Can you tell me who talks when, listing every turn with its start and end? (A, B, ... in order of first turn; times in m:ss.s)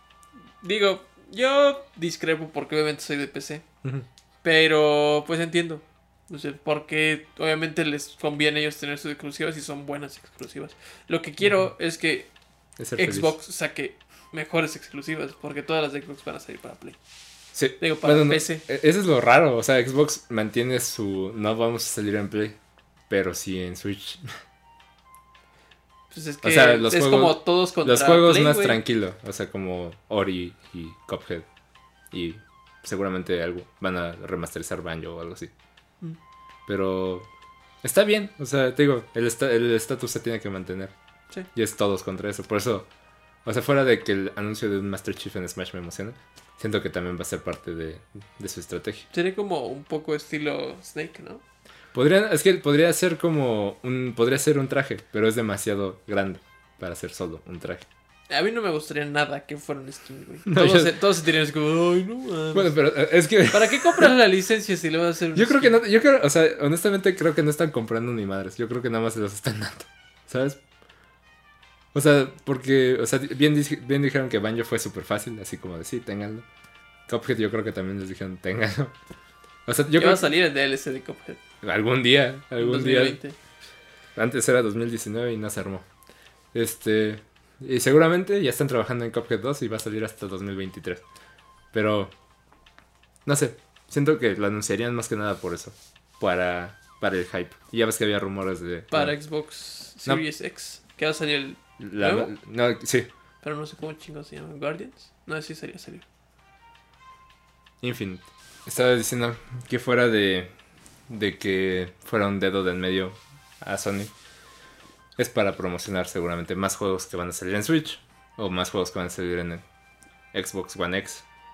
0:00.6-0:03.6 A
0:04.4-0:12.3 A
0:12.8-0:13.3 B
0:13.0-0:17.0 A
0:17.5-0:22.6 B
0:17.8-0:18.6 A
0:23.1-0:24.3 B
0:26.1-0:28.8 A
0:26.4-0:31.5 B
0:32.1-0:35.5 B
0:36.7-0:37.3 B
0:37.8-0:40.9 B
0:41.5-0:42.9 B
0:43.4-0:49.1 B
0:49.1-0:51.4 A
0:51.9-0:57.9 B
0:58.3-1:02.8 A
1:00.4-1:01.0 B
1:02.5-1:04.1 B
1:03.5-1:05.8 A
1:05.3-1:10.6 B
1:11.9-1:16.4 B
1:17.1-1:18.9 B
1:19.6-1:20.3 B
1:19.9-1:21.4 A
1:21.6-1:23.2 B
1:22.6-1:23.4 A
1:24.2-1:25.8 B
1:26.5-1:31.0 B
1:31.7-1:32.1 B
1:33.2-1:39.1 B
1:38.9-1:42.3 A
1:41.8-1:43.1 B
1:43.4-1:46.0 A
1:47.8-1:50.5 B
1:51.1-1:54.1 B
1:55.2-1:59.6 B
2:00.3-2:01.2 B